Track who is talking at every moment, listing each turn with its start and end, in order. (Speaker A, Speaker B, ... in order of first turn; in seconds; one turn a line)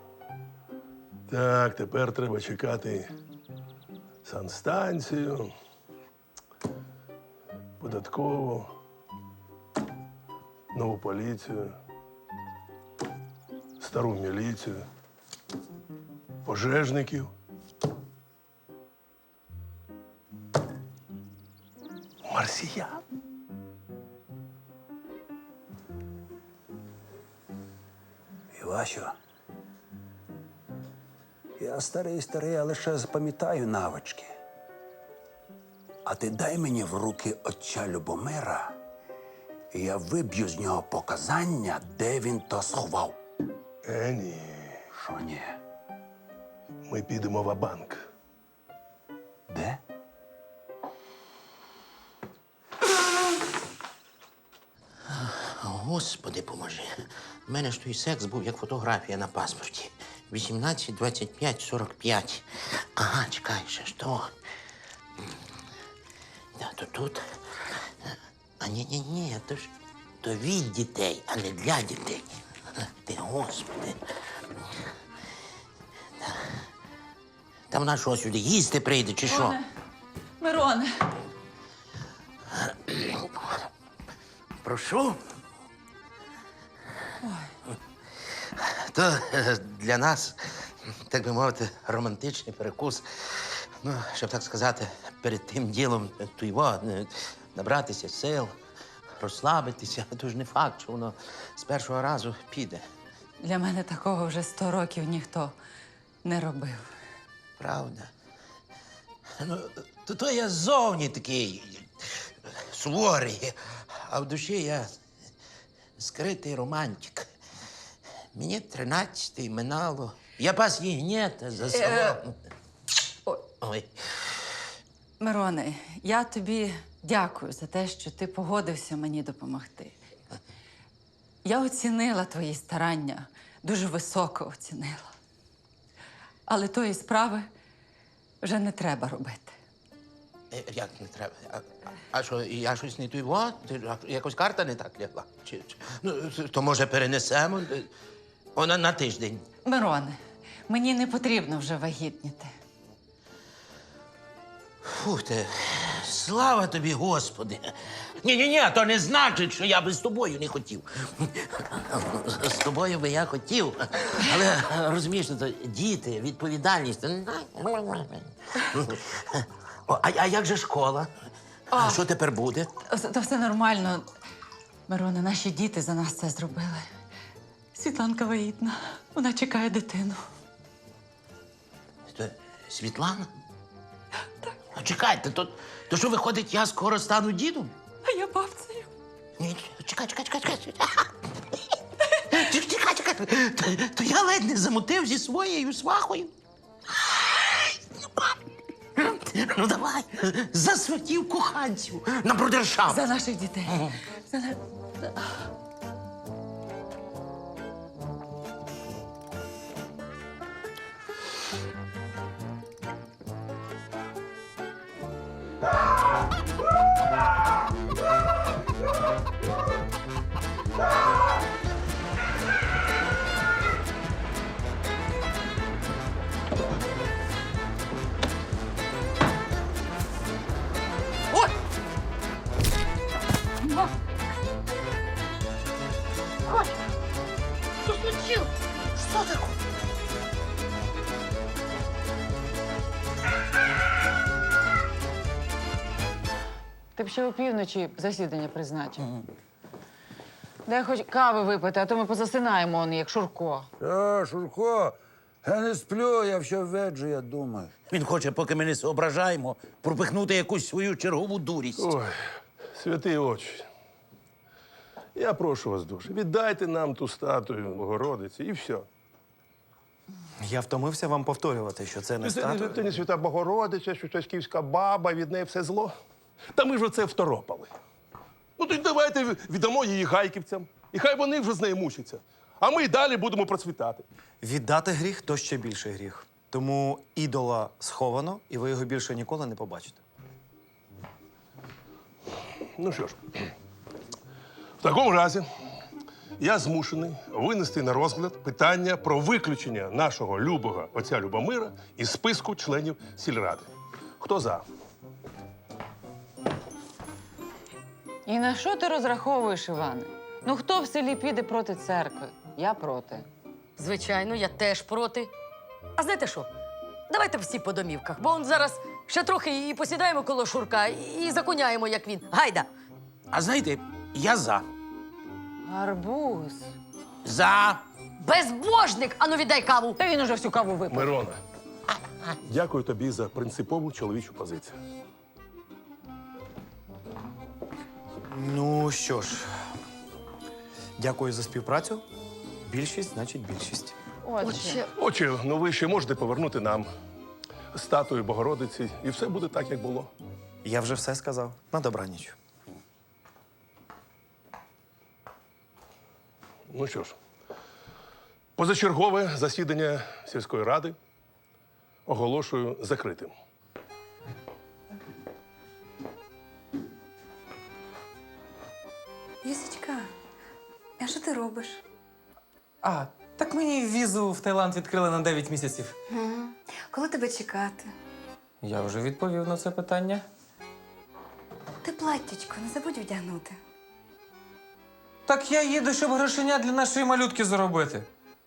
Speaker A: 1.3-3.1
Speaker A: 4.2-5.5
Speaker A: 7.8-8.7
Speaker A: 10.7-11.7
Speaker A: 13.8-14.9
Speaker A: 16.5-17.3
Speaker A: 22.3-23.0
Speaker B: 28.5-29.1
Speaker B: 31.6-34.3
Speaker B: 36.0-38.7
Speaker B: 39.7-43.2
Speaker A: 43.9-44.8
Speaker B: 44.9-45.6
Speaker A: 46.9-48.0
Speaker B: 49.5-49.8
Speaker C: 55.1-64.3
Speaker C: 66.6-67.3
Speaker C: 68.6-74.0
Speaker C: 77.7-79.6
Speaker D: 79.3-79.6
Speaker D: 80.4-80.9
Speaker C: 82.5-83.5
Speaker C: 84.6-85.2
Speaker D: 87.2-87.5
Speaker C: 88.6-90.4
Speaker C: 91.1-98.6
Speaker C: 99.2-102.8
Speaker D: 103.4-105.6
Speaker D: 106.2-106.9
Speaker C: 107.6-108.1
Speaker C: 109.4-114.9
Speaker C: 116.0-117.3
Speaker C: 118.3-122.3
Speaker D: 121.7-122.2
Speaker C: 123.6-124.2
Speaker D: 125.2-130.0
Speaker D: 131.4-135.1
Speaker D: 136.5-137.5
Speaker D: 138.4-139.6
Speaker C: 140.5-147.9
Speaker C: 148.6-149.5
Speaker D: 149.7-152.5
Speaker C: 154.8-171.1
Speaker D: 171.7-172.0
Speaker C: 171.8-172.7
Speaker D: 172.9-174.1
Speaker D: 174.9-176.9
Speaker D: 177.7-180.2
Speaker C: 182.1-183.3
Speaker C: 184.8-187.7
Speaker D: 188.0-188.9
Speaker C: 189.4-191.1
Speaker C: 192.3-196.3
Speaker C: 196.9-198.4
Speaker C: 198.9-203.0
Speaker D: 202.9-205.3
Speaker C: 238.9-239.5
Speaker E: 247.0-249.2
Speaker E: 250.7-253.7
Speaker F: 253.8-257.7
Speaker C: 257.9-261.9
Speaker A: 261.8-262.2
Speaker A: 262.8-263.6
Speaker A: 265.1-268.9
Speaker G: 270.4-272.9
Speaker A: 272.2-275.9
Speaker A: 276.6-277.7
Speaker A: 278.6-284.1
Speaker G: 284.4-290.0
Speaker A: 292.8-293.2
Speaker A: 294.8-295.5
Speaker A: 296.4-303.7
Speaker A: 304.2-304.6
Speaker E: 308.3-313.2
Speaker H: 313.8-315.3
Speaker H: 316.0-316.5
Speaker H: 317.1-322.7
Speaker C: 323.3-324.6
Speaker E: 325.7-326.7
Speaker C: 327.2-327.8
Speaker H: 328.2-330.0
Speaker E: 330.0-331.1
Speaker A: 330.9-331.4
Speaker A: 332.4-334.8
Speaker G: 338.3-339.5
Speaker G: 341.0-342.1
Speaker G: 342.6-344.0
Speaker E: 344.2-344.9
Speaker H: 344.4-344.9
Speaker A: 345.0-346.9
Speaker A: 347.7-350.1
Speaker G: 350.6-352.4
Speaker A: 356.7-357.2
Speaker A: 358.6-361.0
Speaker A: 362.1-363.3
Speaker I: 369.4-370.1
Speaker I: 371.0-371.8
Speaker J: 372.8-375.9
Speaker I: 376.1-377.9
Speaker J: 378.6-380.3
Speaker I: 381.8-383.6
Speaker J: 385.3-388.1